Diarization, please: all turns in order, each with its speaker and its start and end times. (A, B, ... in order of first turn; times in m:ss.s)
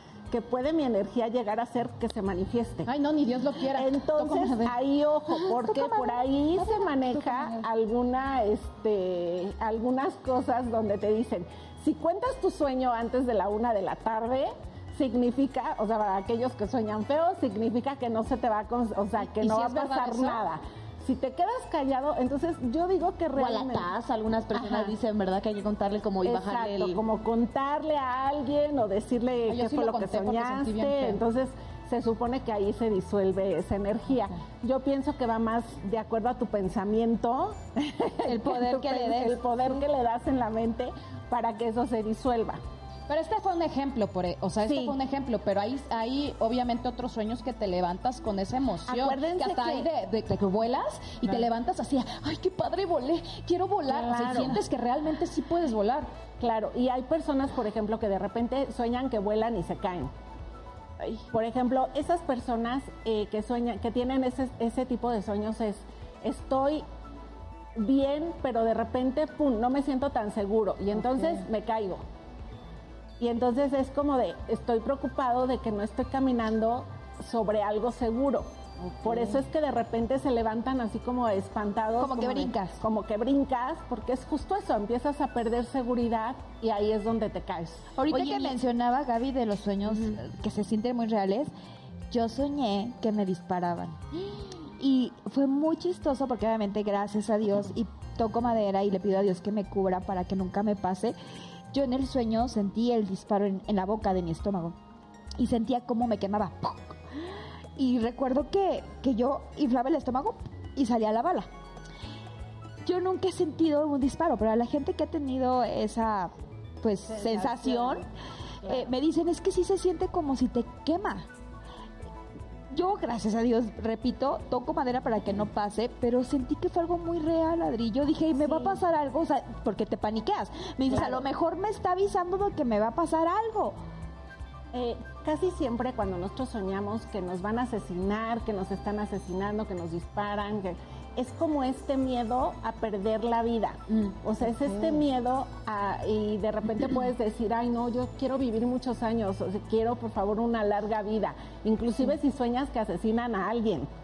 0:00.3-0:02.9 A
0:02.9-0:04.8 B
0:03.7-0:23.9 A
0:05.3-0:07.6 B
0:19.2-0:20.4 B
0:23.4-0:27.0 C
0:24.5-0:24.9 A
0:26.2-0:42.6 A
0:29.5-0:31.2 B
0:38.2-0:39.4 D
0:43.1-0:56.1 B
0:44.6-0:45.0 A
0:48.9-0:49.9 A
0:53.9-0:54.6 A
0:56.4-1:00.1 A
1:01.3-1:06.8 A
1:07.8-1:12.0 A
1:13.2-1:18.5 A
1:19.0-1:27.9 A
1:22.0-1:22.8 D
1:28.0-1:31.5 D
1:28.1-1:28.6 C
1:32.1-1:34.0 D
1:34.8-1:41.2 D
1:41.7-1:44.8 D
1:45.4-1:47.0 D
1:47.8-1:51.5 D
1:52.8-1:58.0 D
1:57.1-1:58.1 A
1:58.6-1:58.9 A
1:58.6-2:01.3 D
2:02.7-2:13.8 D
2:08.4-2:08.8 A
2:10.9-2:11.2 A
2:14.7-2:33.9 A